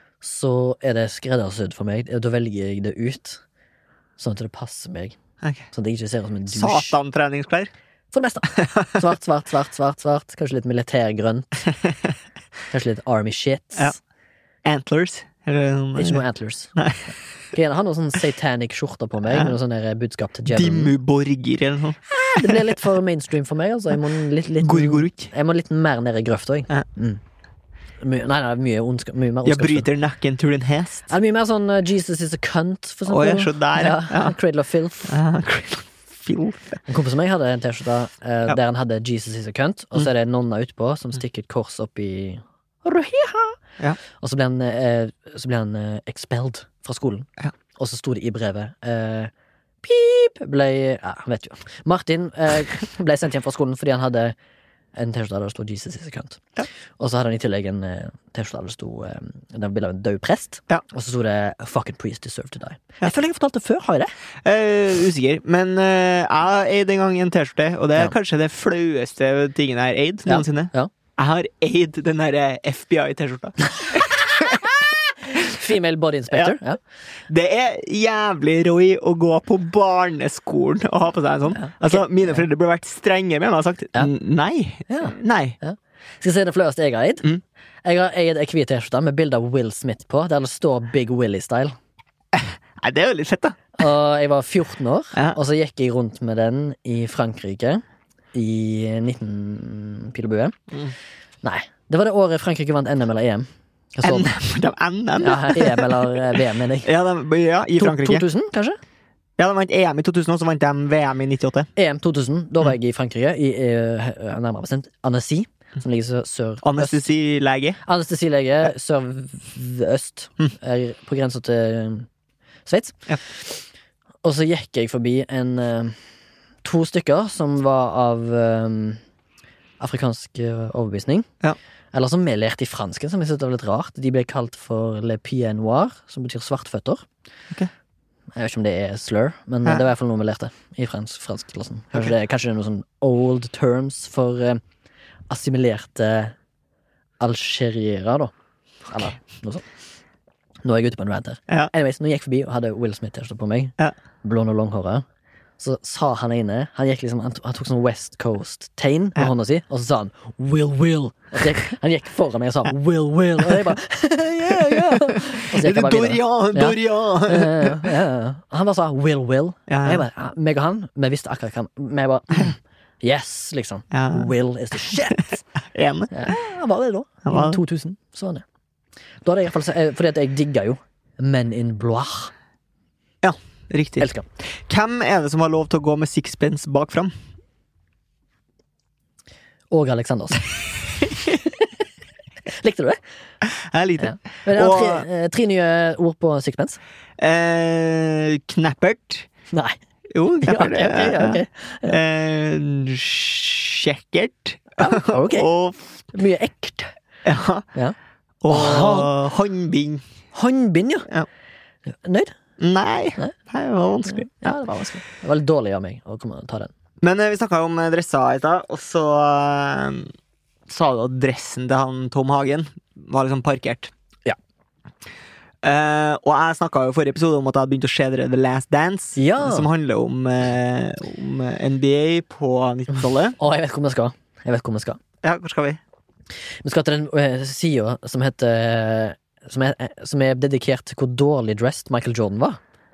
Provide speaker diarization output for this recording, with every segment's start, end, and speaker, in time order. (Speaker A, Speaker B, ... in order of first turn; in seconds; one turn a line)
Speaker A: 0.2-3.4
Speaker A: 4.2-5.2
Speaker B: 5.4-5.7
Speaker A: 5.7-7.0
Speaker B: 6.5-7.7
Speaker A: 8.1-11.7
Speaker B: 11.8-12.1
Speaker A: 12.7-14.0
Speaker B: 14.6-16.2
Speaker A: 16.0-16.8
Speaker B: 16.8-17.1
Speaker A: 17.5-20.9
Speaker B: 19.3-19.5
Speaker B: 20.5-22.7
Speaker A: 22.1-27.2
Speaker B: 24.6-25.3
Speaker A: 28.0-29.9
Speaker B: 29.4-31.1
Speaker A: 31.1-35.2
Speaker B: 33.1-34.4
Speaker B: 35.1-36.8
Speaker A: 36.9-49.3
Speaker A: 49.8-54.4
Speaker A: 55.0-56.4
Speaker A: 57.0-64.1
Speaker B: 64.4-74.8
Speaker A: 70.3-70.9
Speaker A: 75.2-76.8
Speaker B: 77.3-85.6
Speaker A: 81.5-82.4
Speaker A: 84.9-87.3
Speaker A: 87.8-91.8
Speaker B: 92.3-93.6
Speaker A: 93.8-97.8
Speaker A: 98.3-100.6
Speaker A: 101.4-104.4
Speaker B: 104.0-108.3
Speaker A: 105.2-106.9
Speaker A: 107.8-108.8
Speaker B: 109.4-111.7
Speaker A: 111.8-117.0
Speaker B: 116.6-117.8
Speaker A: 117.8-122.1
Speaker A: 122.7-123.6
Speaker A: 124.2-126.0
Speaker A: 126.6-129.0
Speaker A: 129.8-131.3
Speaker A: 131.9-137.1
Speaker A: 138.4-144.6
Speaker A: 145.3-146.4
Speaker A: 147.2-148.3
Speaker A: 148.9-149.7
Speaker A: 150.6-155.1
Speaker A: 155.6-175.4
Speaker B: 164.5-167.9
Speaker B: 169.7-170.1
Speaker B: 173.9-174.3
Speaker B: 175.1-176.1
Speaker A: 176.1-178.4
Speaker B: 177.3-177.6
Speaker A: 179.2-182.3
Speaker B: 183.2-187.1
Speaker A: 184.0-184.3
Speaker A: 189.7-191.7
Speaker A: 192.5-193.0
Speaker B: 193.4-195.1
Speaker A: 194.0-196.8
Speaker B: 197.2-199.3
Speaker A: 199.5-199.8
Speaker B: 200.1-205.9
Speaker A: 200.4-202.0
Speaker A: 204.8-205.5
Speaker A: 206.1-206.9
Speaker B: 207.2-207.6
Speaker B: 208.4-210.0
Speaker A: 208.5-209.2
Speaker A: 210.3-211.1
Speaker A: 212.0-212.3
Speaker B: 212.6-214.6
Speaker A: 214.1-216.7
Speaker B: 217.0-220.1
Speaker B: 220.7-223.9
Speaker B: 225.6-233.4
Speaker A: 229.2-229.7
Speaker A: 233.4-235.0
Speaker B: 235.2-235.8
Speaker A: 236.6-242.6